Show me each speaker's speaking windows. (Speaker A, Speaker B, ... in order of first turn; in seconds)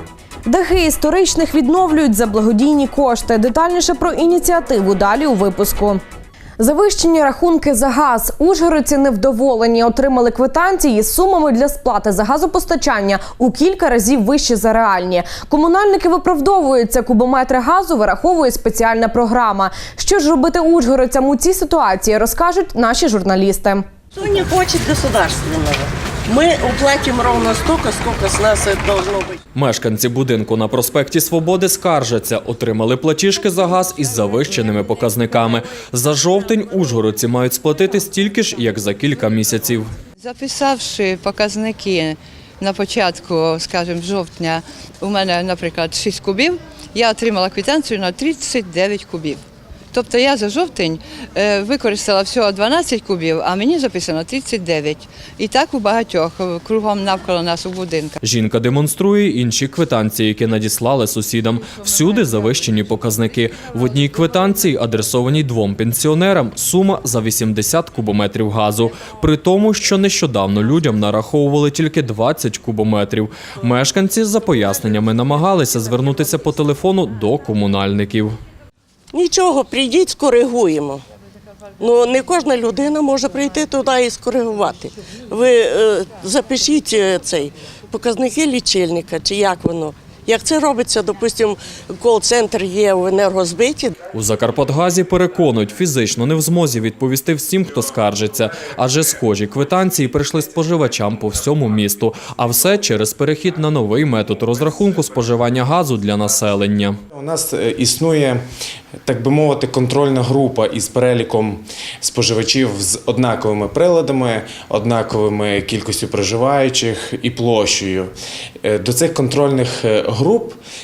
Speaker A: 0.5-6.0, 6.6-23.8
Speaker B: 24.2-29.3, 79.1-81.0, 81.8-93.9
Speaker C: 29.5-39.9, 58.2-78.3, 94.1-107.0
Speaker D: 40.2-58.2
Speaker E: 107.1-108.4, 109.0-118.1, 118.6-120.6